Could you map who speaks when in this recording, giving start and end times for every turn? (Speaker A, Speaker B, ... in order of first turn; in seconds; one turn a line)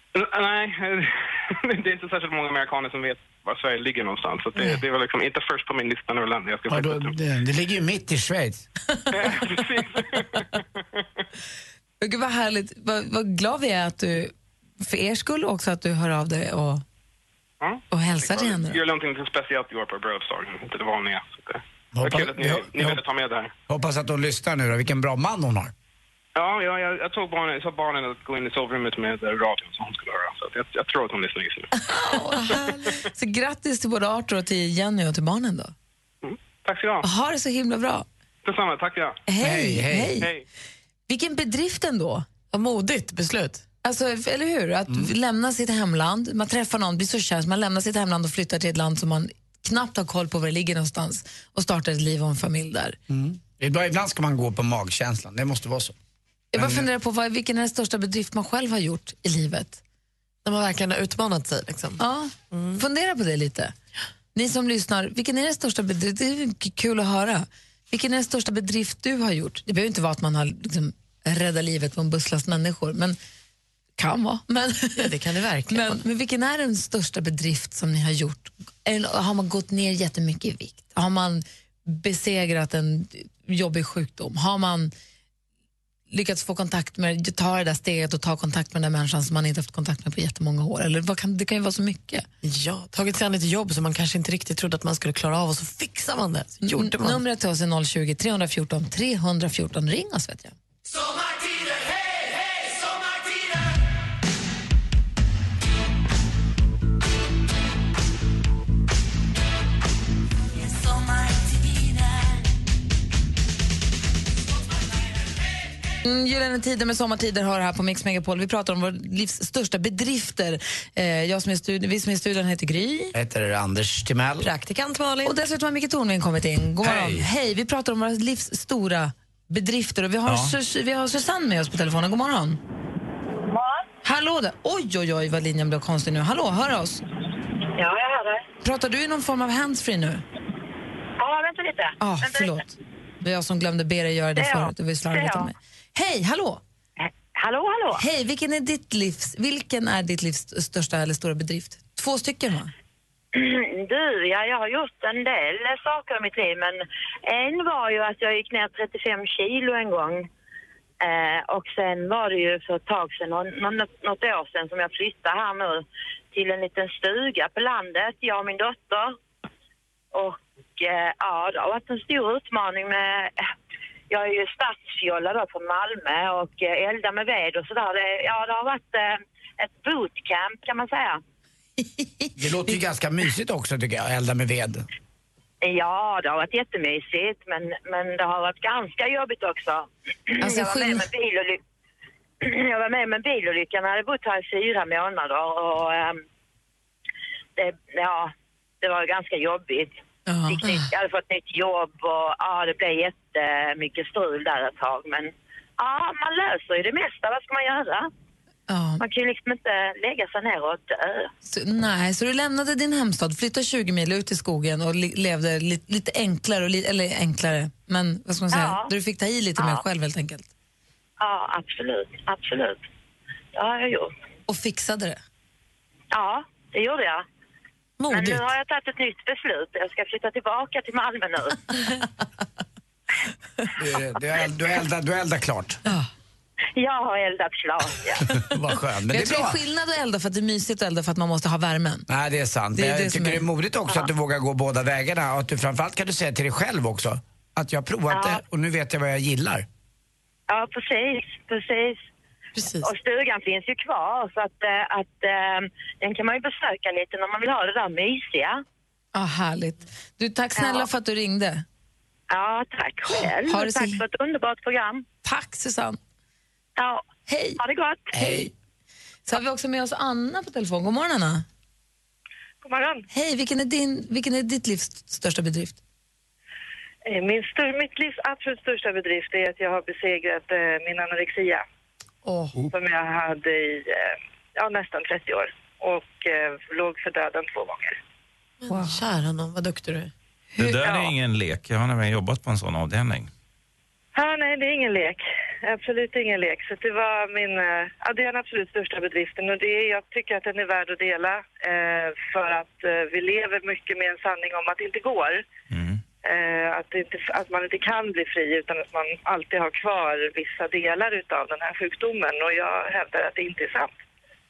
Speaker A: 0.2-1.1
Speaker A: 1.7-7.1
Speaker B: 6.7-8.6
Speaker A: 9.2-10.4
Speaker C: 12.0-16.8
Speaker A: 17.6-23.5
Speaker C: 17.9-18.8
Speaker B: 21.9-23.0
Speaker B: 23.7-25.7
Speaker A: 26.4-31.7
Speaker C: 31.9-35.7
Speaker A: 36.2-37.0
Speaker C: 37.0-38.0
Speaker A: 38.4-39.2
Speaker C: 39.3-40.3
Speaker B: 39.4-40.2
Speaker C: 41.1-42.2
Speaker D: 42.5-43.6
Speaker C: 43.8-53.0
Speaker B: 53.1-55.9
Speaker C: 56.5-59.8
Speaker B: 56.5-56.9
Speaker D: 60.4-62.8
Speaker C: 62.0-63.7
Speaker C: 64.3-73.2
Speaker C: 74.0-75.0
Speaker D: 75.0-76.0
Speaker C: 75.7-84.9
Speaker C: 86.1-92.2
Speaker D: 92.4-97.2
Speaker C: 96.6-100.5
Speaker C: 116.0-123.1
Speaker B: 123.1-124.5
Speaker D: 124.4-125.4
Speaker C: 125.2-132.6
Speaker E: 126.8-127.3
Speaker E: 130.2-130.6
Speaker F: 133.5-133.8
Speaker C: 134.0-137.0
Speaker F: 137.8-138.4
Speaker C: 138.6-140.2
Speaker F: 141.2-142.6
Speaker C: 142.0-146.6
Speaker F: 144.3-145.5
Speaker F: 147.0-148.0
Speaker C: 148.0-152.7
Speaker F: 153.3-160.3
Speaker F: 161.0-169.2
Speaker F: 170.1-173.4
Speaker F: 174.1-181.2
Speaker C: 181.8-182.3
Speaker B: 182.4-184.8
Speaker F: 185.6-191.6
Speaker C: 190.4-191.1
Speaker F: 192.4-196.2
Speaker F: 197.6-208.1
Speaker C: 200.3-200.7
Speaker D: 200.6-200.9
Speaker C: 208.7-209.0
Speaker F: 209.0-211.3
Speaker C: 211.4-220.5
Speaker F: 218.5-218.9
Speaker F: 219.6-219.8
Speaker F: 221.2-222.8
Speaker F: 223.5-224.1
Speaker C: 224.5-225.2
Speaker F: 226.1-227.2
Speaker D: 228.0-228.5
Speaker F: 228.1-231.8
Speaker B: 233.8-235.8
Speaker F: 236.8-238.2
Speaker B: 238.5-239.6
Speaker C: 239.1-242.1
Speaker B: 242.1-249.7
Speaker C: 242.8-243.4
Speaker F: 248.1-248.4
Speaker F: 250.5-252.0
Speaker D: 252.6-252.9
Speaker F: 252.8-258.6
Speaker C: 259.1-261.6
Speaker F: 260.6-260.9
Speaker F: 262.3-265.0
Speaker C: 263.1-264.0
Speaker C: 265.2-266.0
Speaker F: 266.8-267.0
Speaker C: 267.3-267.6
Speaker F: 267.6-268.3
Speaker C: 268.1-268.5
Speaker B: 268.2-268.5
Speaker C: 269.3-271.4
Speaker G: 272.6-273.0
Speaker C: 273.1-275.8
Speaker G: 277.1-281.6
Speaker D: 282.2-282.7
Speaker G: 282.7-288.0
Speaker D: 288.6-290.1
Speaker C: 288.7-289.0
Speaker E: 290.6-293.3
Speaker G: 294.1-305.4
Speaker E: 305.7-306.0
Speaker G: 306.2-313.9